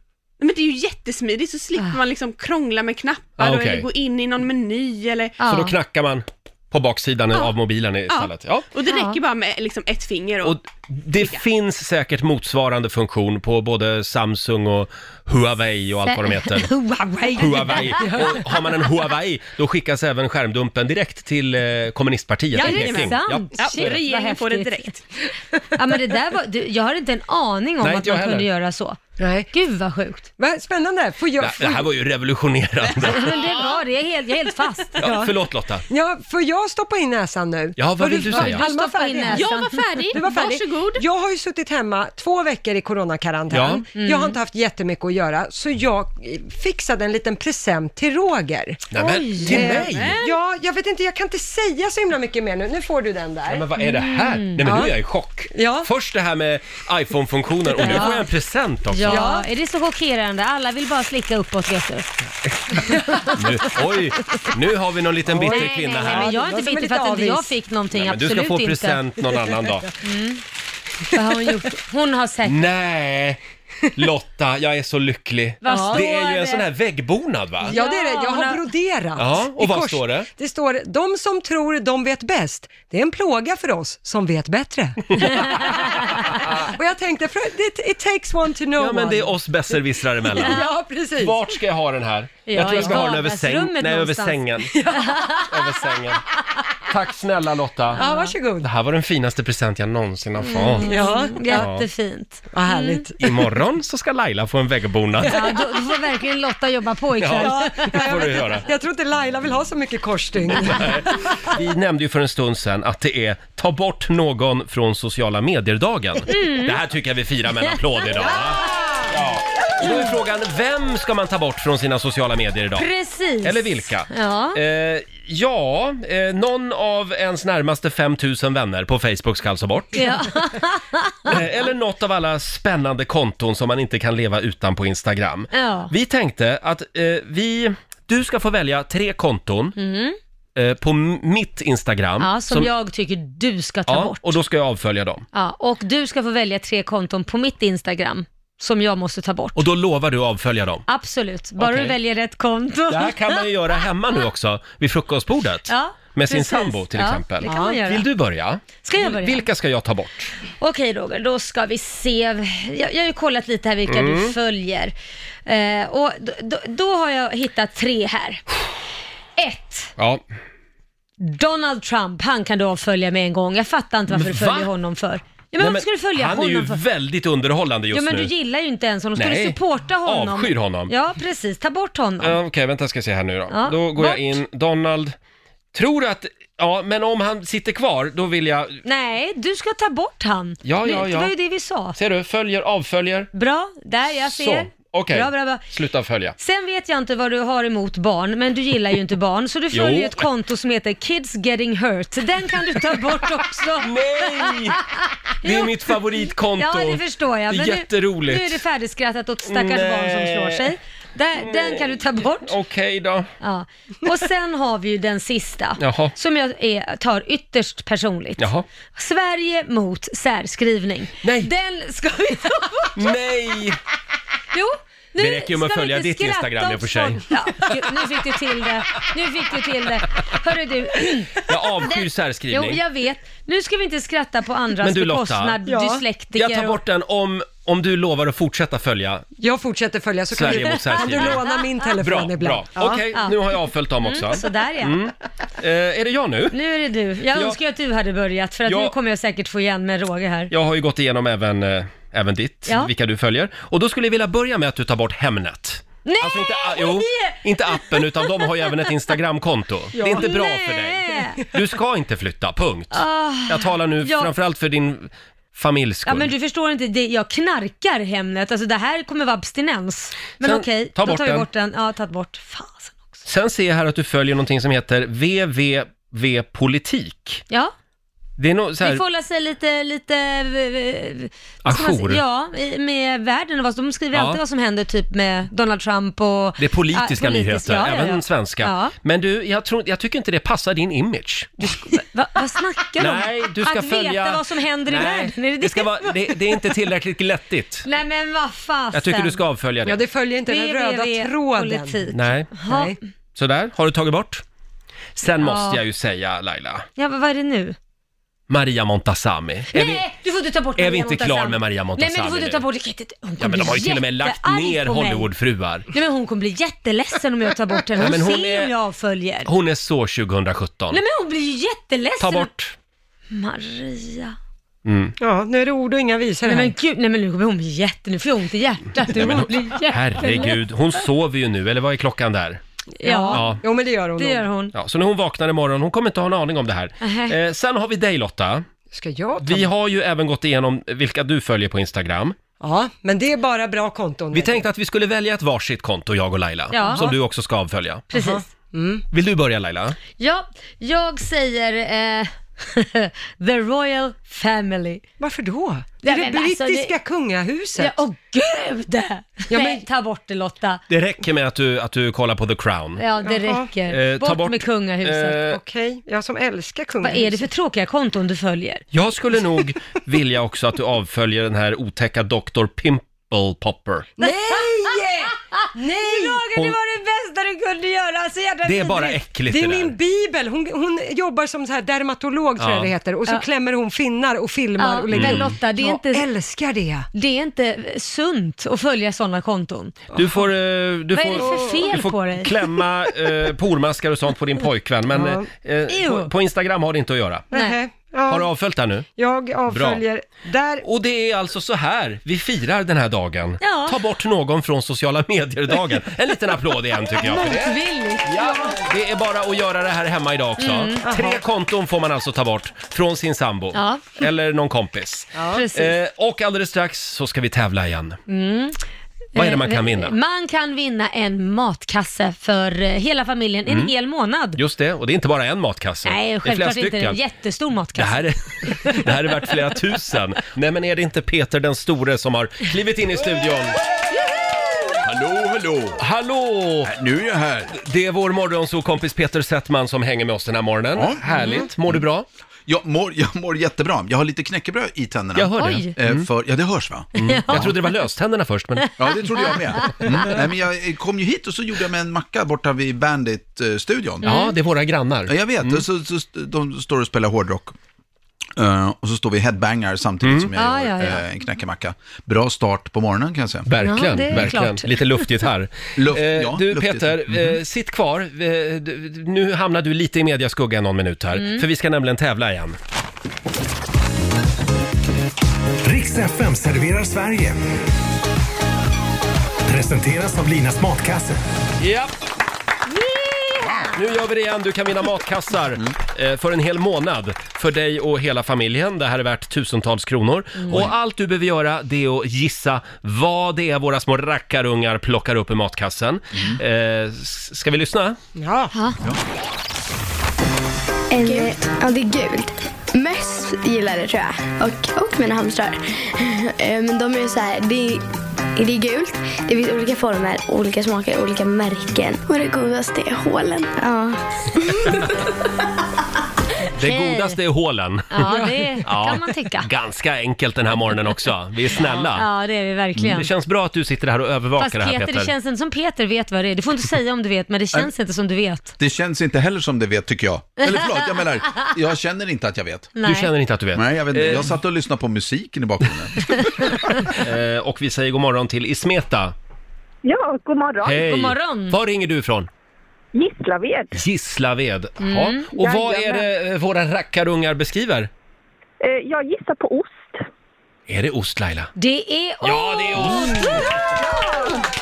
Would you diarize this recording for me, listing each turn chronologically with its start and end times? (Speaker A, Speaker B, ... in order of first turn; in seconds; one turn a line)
Speaker A: 0.4-5.4
Speaker B: 3.4-3.9
Speaker C: 5.4-5.7
Speaker B: 5.4-8.7
Speaker A: 8.1-10.6
Speaker C: 8.8-9.2
Speaker B: 10.4-16.7
Speaker A: 11.2-11.4
Speaker C: 16.1-18.2
Speaker B: 17.4-24.0
Speaker A: 22.5-25.0
Speaker C: 22.6-24.9
Speaker C: 25.7-29.0
Speaker B: 27.8-28.5
Speaker D: 29.2-29.5
Speaker C: 29.5-30.3
Speaker D: 30.4-31.9
Speaker B: 31.4-33.4
Speaker C: 33.1-35.1
Speaker D: 35.0-35.3
Speaker B: 35.0-35.8
Speaker D: 35.9-39.5
Speaker B: 37.8-38.6
Speaker C: 38.3-40.2
Speaker A: 39.3-41.0
Speaker D: 40.1-48.8
Speaker B: 43.5-43.8
Speaker C: 44.0-44.4
Speaker B: 48.9-50.2
Speaker C: 48.9-49.8
Speaker D: 49.5-53.7
Speaker A: 49.5-50.4
Speaker B: 53.5-59.2
Speaker C: 53.9-54.6
Speaker D: 54.6-54.9
Speaker D: 55.5-55.9
Speaker C: 57.8-58.3
Speaker C: 58.9-62.1
Speaker D: 59.1-59.5
Speaker C: 62.7-63.3
Speaker B: 63.3-66.3
Speaker D: 65.3-67.6
Speaker C: 65.5-69.0
Speaker B: 67.9-69.9
Speaker C: 70.0-70.4
Speaker C: 71.1-72.6
Speaker B: 72.4-73.4
Speaker B: 73.9-77.8
Speaker C: 75.6-76.7
Speaker D: 75.7-76.0
Speaker D: 77.6-89.3
Speaker C: 77.7-78.6
Speaker B: 79.2-80.3
Speaker B: 88.8-90.6
Speaker D: 90.2-91.5
Speaker B: 91.2-94.8
Speaker C: 92.5-94.4
Speaker D: 92.7-93.0
Speaker D: 94.7-95.5
Speaker C: 94.9-95.5
Speaker B: 95.4-96.2
Speaker B: 96.8-98.0
Speaker D: 97.9-98.7
Speaker C: 98.0-98.3
Speaker B: 98.6-101.8
Speaker C: 100.4-103.0
Speaker D: 100.8-101.7
Speaker D: 102.5-103.5
Speaker B: 103.2-105.4
Speaker D: 105.2-105.7
Speaker C: 105.2-108.0
Speaker B: 107.2-108.7
Speaker D: 107.4-111.1
Speaker B: 110.6-122.9
Speaker C: 116.3-116.8
Speaker D: 118.5-119.0
Speaker C: 122.8-124.6
Speaker B: 123.4-130.1
Speaker C: 129.9-131.4
Speaker B: 131.3-139.8
Speaker C: 135.5-135.9
Speaker C: 139.8-140.2
Speaker B: 140.6-142.7
Speaker C: 142.2-144.4
Speaker B: 143.9-145.2
Speaker C: 145.3-149.6
Speaker B: 149.5-150.8
Speaker C: 150.9-153.8
Speaker B: 151.6-151.9
Speaker B: 152.9-160.3
Speaker C: 155.7-158.1
Speaker D: 157.4-157.8
Speaker C: 158.8-159.4
Speaker C: 160.6-164.9
Speaker B: 163.9-164.3
Speaker C: 165.4-168.4
Speaker C: 169.4-169.9
Speaker B: 170.0-170.2
Speaker C: 171.2-176.8
Speaker B: 174.1-174.7
Speaker B: 175.6-178.3
Speaker C: 177.9-182.4
Speaker B: 179.2-180.9
Speaker B: 182.2-185.2
Speaker C: 183.5-184.4
Speaker B: 185.7-188.8
Speaker C: 188.8-191.9
Speaker B: 190.6-191.3
Speaker B: 191.9-193.3
Speaker C: 193.3-195.6
Speaker B: 194.2-196.3
Speaker C: 196.4-212.5
Speaker B: 199.7-200.3
Speaker B: 203.8-204.8
Speaker B: 205.4-208.6
Speaker B: 209.4-210.7
Speaker B: 211.4-213.3
Speaker C: 213.4-223.1
Speaker B: 215.8-216.1
Speaker B: 218.4-218.7
Speaker B: 221.2-221.5
Speaker B: 222.9-223.8
Speaker C: 224.5-236.8
Speaker B: 225.2-227.2
Speaker B: 231.4-232.8
Speaker B: 234.8-235.6
Speaker D: 235.7-236.0
Speaker B: 236.3-239.2
Speaker D: 239.4-243.0
Speaker B: 240.3-241.4
Speaker C: 241.0-241.6
Speaker B: 242.0-246.6
Speaker C: 244.0-245.0
Speaker C: 246.5-250.5
Speaker B: 247.3-247.6
Speaker B: 248.7-248.9
Speaker B: 250.5-266.3
Speaker C: 256.0-258.6
Speaker D: 259.9-260.2
Speaker C: 260.0-261.4
Speaker C: 262.9-264.3
Speaker C: 266.1-273.2
Speaker B: 270.4-271.4
Speaker B: 273.2-277.4
Speaker B: 278.4-279.0
Speaker C: 278.8-288.9
Speaker B: 281.6-282.2
Speaker B: 284.1-284.4
Speaker B: 286.6-291.8
Speaker C: 291.6-296.6
Speaker B: 293.0-297.9
Speaker C: 297.9-299.4
Speaker B: 298.9-300.0
Speaker D: 299.8-302.0
Speaker C: 300.5-303.0
Speaker B: 302.1-302.5
Speaker D: 302.7-303.0
Speaker B: 303.3-304.4
Speaker B: 305.1-306.9
Speaker C: 305.4-305.8
Speaker C: 307.0-307.8
Speaker B: 308.5-310.0
Speaker C: 309.7-315.3
Speaker B: 310.8-312.6
Speaker B: 313.4-315.9
Speaker C: 315.9-319.5
Speaker B: 318.0-318.7
Speaker B: 319.4-321.0
Speaker C: 320.9-322.5
Speaker B: 322.2-322.7
Speaker C: 323.3-324.4
Speaker B: 324.8-325.1
Speaker D: 325.2-326.7
Speaker C: 326.4-331.0
Speaker B: 329.1-332.6
Speaker D: 332.9-334.5
Speaker C: 333.0-333.5
Speaker B: 333.3-333.6
Speaker C: 334.2-334.7
Speaker B: 334.7-338.6
Speaker C: 337.0-337.4
Speaker D: 338.9-339.7
Speaker B: 339.4-342.4
Speaker D: 342.6-344.6
Speaker B: 344.3-348.1
Speaker C: 346.7-347.1
Speaker D: 346.8-347.1
Speaker C: 348.1-348.4
Speaker D: 348.1-349.0
Speaker B: 349.1-350.0
Speaker C: 350.2-355.0
Speaker D: 355.2-358.0
Speaker C: 356.0-356.9
Speaker C: 357.8-360.8
Speaker D: 359.5-359.8
Speaker B: 360.9-363.0
Speaker C: 363.0-365.4
Speaker D: 363.2-363.7
Speaker B: 363.9-365.6
Speaker D: 365.5-367.5
Speaker C: 367.0-368.8
Speaker B: 368.9-374.1
Speaker D: 374.2-376.5
Speaker C: 375.6-379.2
Speaker B: 378.6-379.9
Speaker D: 379.5-387.1
Speaker B: 382.6-382.9
Speaker C: 384.8-386.3
Speaker B: 385.1-385.5
Speaker C: 387.1-390.2
Speaker B: 390.1-397.4
Speaker C: 391.1-392.6
Speaker D: 391.3-391.9
Speaker D: 395.1-395.5
Speaker C: 395.9-396.3
Speaker D: 397.5-398.5
Speaker B: 398.3-399.1
Speaker D: 399.1-400.8
Speaker B: 399.7-400.0
Speaker B: 400.8-418.2
Speaker C: 403.6-404.0
Speaker C: 407.2-408.2
Speaker C: 410.6-411.0
Speaker D: 411.0-411.4
Speaker C: 413.7-414.2
Speaker D: 415.3-415.6
Speaker C: 415.5-415.9
Speaker C: 418.3-418.8
Speaker C: 419.3-424.6
Speaker B: 419.3-420.1
Speaker B: 424.6-427.2
Speaker C: 426.1-429.0
Speaker B: 427.9-433.8
Speaker E: 435.0-436.0
Speaker B: 436.0-436.9
Speaker E: 436.8-437.7
Speaker B: 437.7-442.2
Speaker E: 440.9-442.0
Speaker E: 442.6-447.7
Speaker B: 445.3-446.3
Speaker C: 445.6-445.9
Speaker B: 447.1-448.9
Speaker C: 447.1-447.8
Speaker C: 448.8-450.2
Speaker E: 449.0-454.3
Speaker B: 454.2-455.8
Speaker C: 454.2-454.5
Speaker E: 455.3-457.8
Speaker E: 458.6-463.7
Speaker B: 460.2-460.5
Speaker C: 460.6-461.2
Speaker B: 463.6-472.8
Speaker C: 463.8-465.3
Speaker E: 465.9-467.6
Speaker C: 471.4-471.6
Speaker F: 475.8-477.6
Speaker F: 479.6-481.4
Speaker B: 481.8-482.1
Speaker C: 482.9-483.9
Speaker B: 483.9-498.2
Speaker E: 496.3-496.6
Speaker D: 498.4-498.7
Speaker G: 501.1-508.0
Speaker G: 508.5-514.7
Speaker B: 516.8-518.3
Speaker C: 516.8-517.4
Speaker C: 518.1-519.7
Speaker D: 518.3-518.8
Speaker B: 518.8-522.3
Speaker C: 521.8-523.3
Speaker B: 523.0-525.3
Speaker C: 524.6-528.7
Speaker E: 528.8-532.9
Speaker C: 530.6-531.6
Speaker C: 533.0-533.3
Speaker B: 533.0-534.5
Speaker E: 533.7-537.2
Speaker B: 537.2-539.3
Speaker H: 540.0-541.0
Speaker B: 540.8-542.5
Speaker C: 541.0-541.8
Speaker H: 543.1-543.9
Speaker B: 543.9-548.1
Speaker C: 545.0-545.5
Speaker H: 545.6-546.2
Speaker H: 548.8-550.2
Speaker B: 550.9-551.7
Speaker C: 551.8-553.6
Speaker B: 552.4-553.7
Speaker H: 553.9-554.6